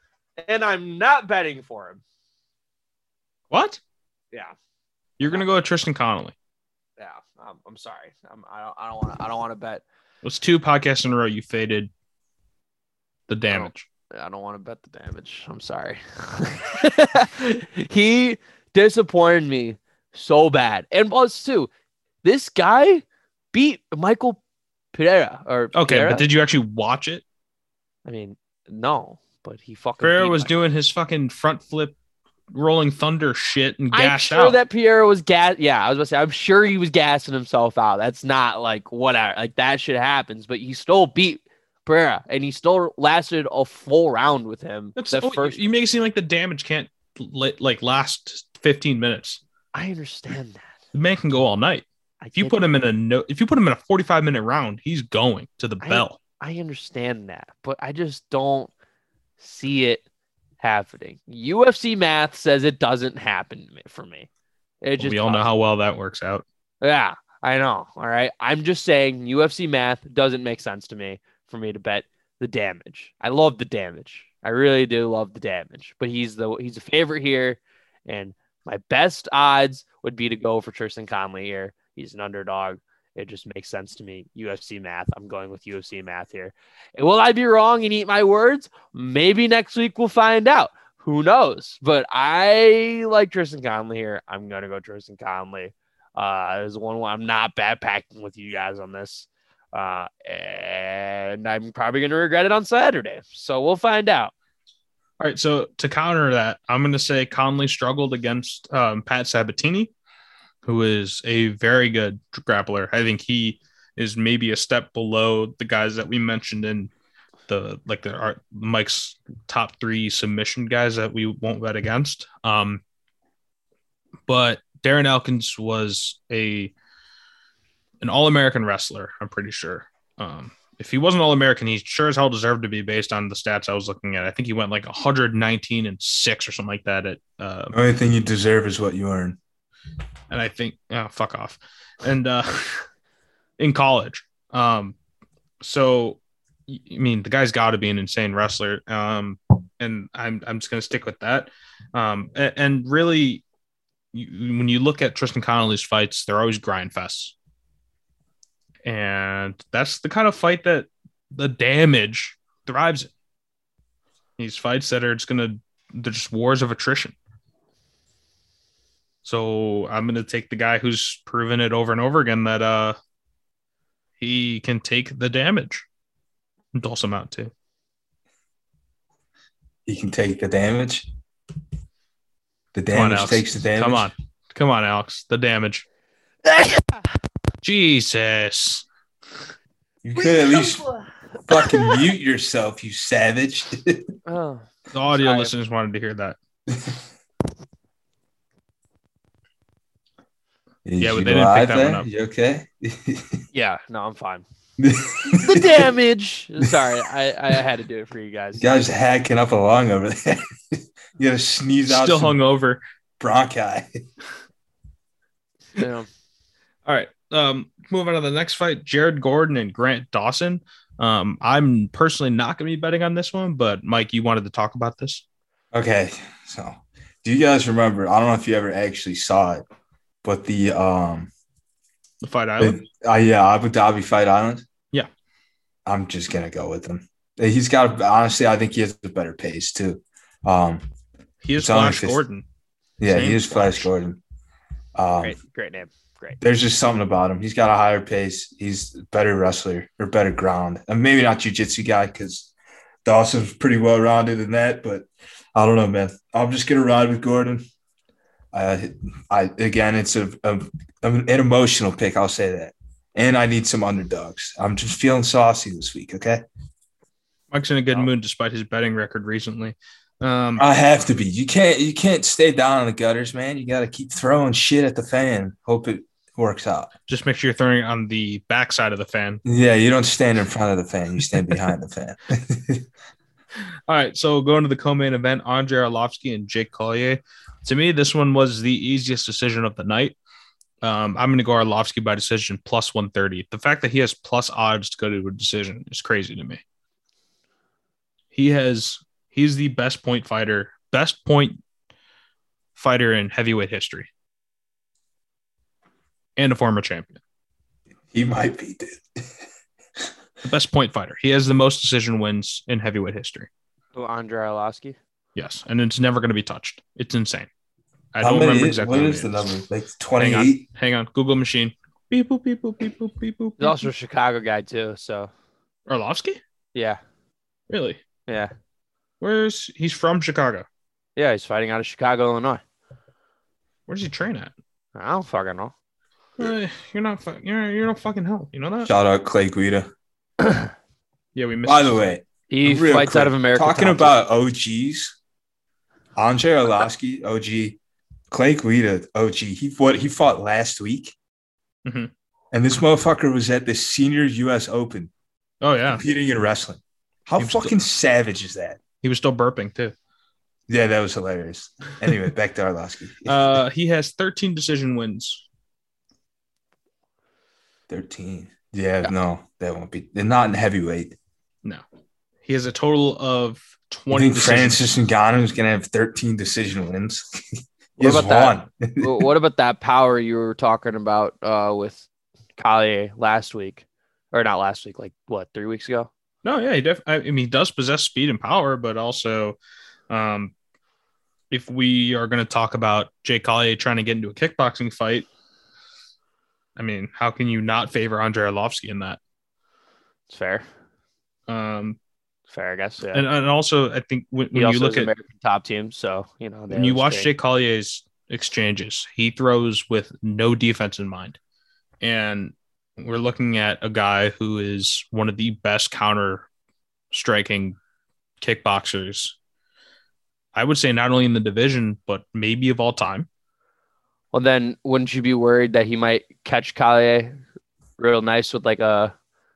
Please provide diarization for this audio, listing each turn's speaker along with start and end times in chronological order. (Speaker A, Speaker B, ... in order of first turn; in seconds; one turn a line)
Speaker A: 0.4-2.0
Speaker B: 3.5-3.8
Speaker B: 5.2-6.3
Speaker A: 7.0-9.8
Speaker B: 10.2-11.9
Speaker B: 13.3-13.8
Speaker A: 13.5-21.7
Speaker A: 22.2-24.4
Speaker A: 24.9-26.3
Speaker B: 25.7-27.2
Speaker A: 28.1-30.5
Speaker B: 30.0-31.9
Speaker B: 32.5-34.6
Speaker A: 33.9-45.6
Speaker B: 45.0-49.4
Speaker A: 49.7-50.7
Speaker B: 50.9-56.2
Speaker A: 52.2-52.6
Speaker A: 55.8-58.7
Speaker A: 59.4-60.0
Speaker A: 60.6-64.3
Speaker A: 64.8-65.4
Speaker B: 65.0-66.4
Speaker A: 66.8-104.3
Speaker B: 105.2-109.9
Speaker B: 110.7-116.9
Speaker B: 117.5-122.8
Speaker B: 124.3-126.7
Speaker B: 128.0-137.8
Speaker C: 137.7-139.4
Speaker B: 140.3-142.9
Speaker B: 143.6-144.9
Speaker B: 145.6-153.4
Speaker B: 154.1-157.3
Speaker B: 158.8-163.1
Speaker B: 164.4-167.2
Speaker B: 169.2-173.0
Speaker B: 174.2-175.8
Speaker B: 176.7-177.5
Speaker C: 179.9-181.1
Speaker C: 182.7-184.1
Speaker B: 182.9-185.8
Speaker A: 186.4-187.1
Speaker B: 187.6-188.8
Speaker C: 190.0-190.8
Speaker A: 190.2-192.0
Speaker C: 191.5-194.1
Speaker A: 194.3-195.5
Speaker B: 194.9-196.4
Speaker C: 196.7-197.0
Speaker C: 200.8-203.4
Speaker B: 201.0-202.1
Speaker A: 203.5-204.4
Speaker C: 204.8-205.9
Speaker A: 205.3-208.7
Speaker C: 206.6-207.0
Speaker C: 208.6-212.4
Speaker B: 211.9-212.8
Speaker C: 213.2-214.0
Speaker A: 215.8-216.1
Speaker B: 216.9-225.2
Speaker C: 225.7-229.6
Speaker C: 230.2-231.3
Speaker B: 232.2-232.8
Speaker C: 232.6-234.7
Speaker C: 235.9-240.9
Speaker B: 241.4-242.4
Speaker C: 241.6-242.2
Speaker C: 243.0-244.2
Speaker B: 243.1-243.9
Speaker C: 245.0-245.4
Speaker A: 245.2-246.4
Speaker C: 246.4-252.5
Speaker C: 253.1-257.6
Speaker C: 258.5-266.4
Speaker B: 267.5-270.6
Speaker C: 270.6-276.9
Speaker B: 277.1-279.4
Speaker C: 279.4-282.9
Speaker B: 283.9-290.2
Speaker B: 290.8-296.6
Speaker B: 298.3-301.6
Speaker B: 302.8-304.1
Speaker B: 306.4-307.2
Speaker C: 308.1-309.3
Speaker B: 310.4-313.5
Speaker A: 313.9-315.0
Speaker B: 315.4-317.5
Speaker B: 318.1-319.5
Speaker C: 318.2-320.6
Speaker B: 320.2-323.9
Speaker A: 323.6-325.3
Speaker B: 325.9-326.4
Speaker A: 326.7-327.0
Speaker B: 327.7-328.0
Speaker B: 329.2-330.7
Speaker A: 331.2-332.6
Speaker B: 333.9-334.5
Speaker A: 334.9-335.7
Speaker B: 336.4-338.9
Speaker C: 338.9-339.9
Speaker A: 340.4-340.7
Speaker B: 341.4-342.0
Speaker C: 341.6-345.1
Speaker A: 342.5-344.2
Speaker C: 346.2-347.8
Speaker C: 348.3-351.1
Speaker B: 351.9-352.1
Speaker C: 352.5-355.1
Speaker B: 355.6-356.0
Speaker C: 355.9-358.8
Speaker B: 357.4-357.8
Speaker B: 359.0-359.9
Speaker C: 360.7-363.6
Speaker B: 363.3-365.4
Speaker C: 367.9-371.2
Speaker B: 372.4-374.9
Speaker C: 374.1-379.3
Speaker A: 378.0-382.1
Speaker A: 382.6-386.1
Speaker B: 386.4-389.6
Speaker B: 390.1-390.5
Speaker B: 391.5-395.3
Speaker B: 396.8-399.2
Speaker A: 400.3-400.7
Speaker B: 401.5-402.0
Speaker A: 402.5-403.2
Speaker B: 403.1-405.1
Speaker A: 404.5-407.3
Speaker B: 406.7-411.4
Speaker B: 412.0-416.5
Speaker B: 417.1-417.8
Speaker B: 418.4-419.4
Speaker B: 420.6-423.3
Speaker A: 424.3-427.4
Speaker A: 428.0-429.1